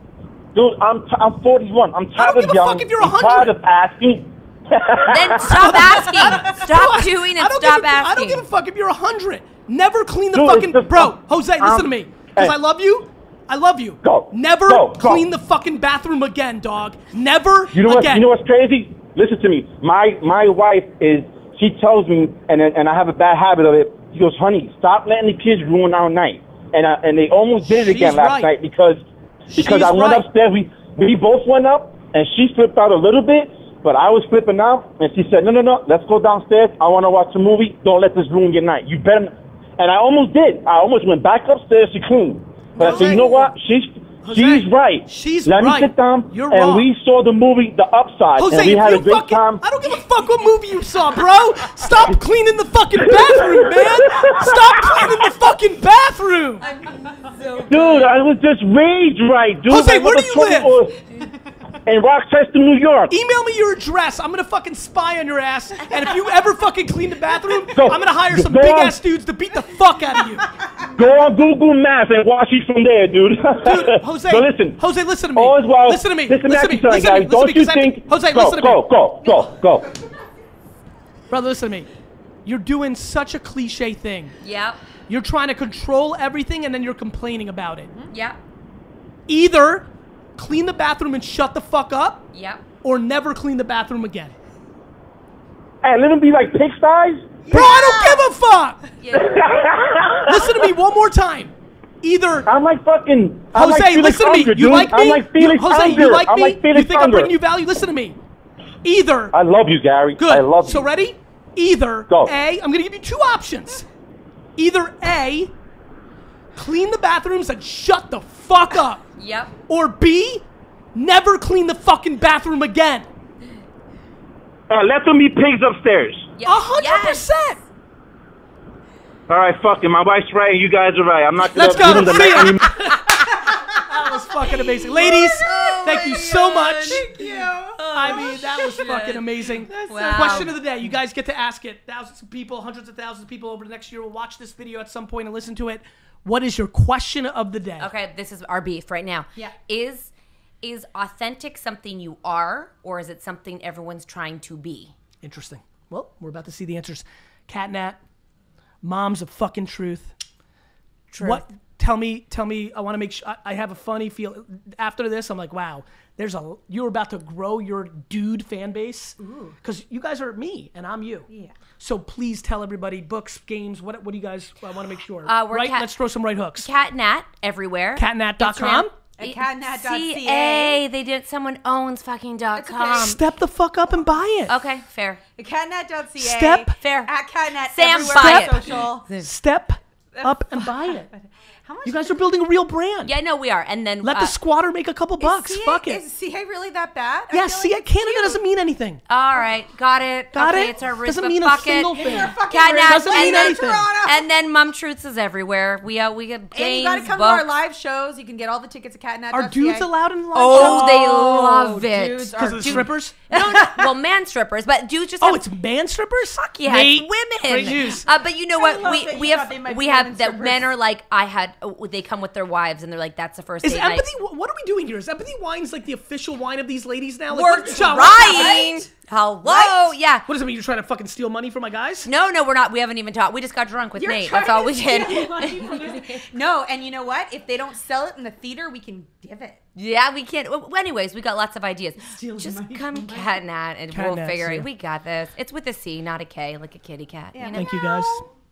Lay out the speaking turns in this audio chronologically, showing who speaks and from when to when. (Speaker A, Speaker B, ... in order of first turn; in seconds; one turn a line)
Speaker A: 0.5-6.1
Speaker B: 2.1-3.6
Speaker C: 5.1-8.4
Speaker B: 5.4-18.3
Speaker A: 10.3-12.6
Speaker A: 14.0-15.3
Speaker A: 17.7-49.6
Speaker B: 27.6-28.5
Speaker B: 29.5-30.3
Speaker B: 42.8-43.5
Speaker D: 42.8-43.2
Speaker B: 44.2-46.9
Speaker B: 48.4-56.7
Speaker A: 53.0-55.3
Speaker D: 56.6-57.6
Speaker C: 57.4-58.0
Speaker A: 57.7-61.0
Speaker B: 59.7-60.8
Speaker A: 61.9-63.1
Speaker B: 63.1-70.5
Speaker A: 67.6-69.0
Speaker A: 70.9-79.8
Speaker B: 73.6-78.9
Speaker B: 81.3-81.9
Speaker B: 82.4-84.3
Speaker C: 84.4-84.8
Speaker B: 85.1-87.9
Speaker C: 88.1-88.4
Speaker B: 89.3-92.3
Speaker C: 92.3-92.6
Speaker B: 92.8-94.3
Speaker A: 95.8-97.4
Speaker D: 97.5-98.2
Speaker B: 97.5-98.8
Speaker C: 99.0-99.5
Speaker A: 99.1-100.7
Speaker B: 100.2-102.5
Speaker A: 102.5-107.3
Speaker B: 103.5-108.2
Speaker B: 108.8-109.3
Speaker A: 109.3-110.9
Speaker B: 110.2-113.8
Speaker A: 112.1-112.3
Speaker B: 114.5-115.5
Speaker B: 116.5-119.0
Speaker C: 119.2-119.5
Speaker B: 119.7-123.1
Speaker A: 124.7-126.3
Speaker C: 126.3-127.2
Speaker B: 126.4-127.6
Speaker A: 129.3-132.9
Speaker B: 131.5-137.1
Speaker D: 135.0-139.0
Speaker C: 136.6-139.2
Speaker B: 137.9-147.9
Speaker D: 139.6-140.5
Speaker C: 139.8-140.5
Speaker C: 147.8-150.1
Speaker C: 150.6-154.9
Speaker B: 155.2-158.0
Speaker B: 158.8-160.2
Speaker C: 161.1-161.4
Speaker B: 161.2-171.3
Speaker D: 169.2-169.6
Speaker D: 171.3-171.5
Speaker B: 171.8-176.7
Speaker C: 175.2-175.9
Speaker C: 176.6-183.2
Speaker B: 177.9-178.9
Speaker D: 179.2-180.8
Speaker D: 182.5-183.1
Speaker B: 182.9-184.6
Speaker C: 184.5-185.2
Speaker D: 185.4-189.1
Speaker B: 186.2-186.8
Speaker C: 186.8-189.3
Speaker B: 188.0-191.1
Speaker D: 190.1-192.2
Speaker B: 191.8-193.1
Speaker C: 193.0-194.3
Speaker B: 194.0-196.0
Speaker D: 195.2-198.4
Speaker B: 197.3-199.0
Speaker C: 199.1-207.5
Speaker B: 200.3-203.9
Speaker D: 201.9-204.3
Speaker D: 206.5-209.9
Speaker B: 209.3-211.5
Speaker C: 210.3-215.4
Speaker D: 210.5-213.9
Speaker B: 212.3-213.2
Speaker B: 215.2-218.1
Speaker C: 216.6-224.1
Speaker D: 218.5-220.7
Speaker B: 223.6-228.6
Speaker C: 227.3-230.2
Speaker D: 227.4-228.9
Speaker D: 229.5-229.8
Speaker B: 230.2-232.1
Speaker C: 232.0-236.2
Speaker D: 233.9-239.6
Speaker C: 239.8-247.7
Speaker D: 242.1-243.4
Speaker B: 243.9-244.7
Speaker D: 247.3-248.1
Speaker B: 247.5-248.2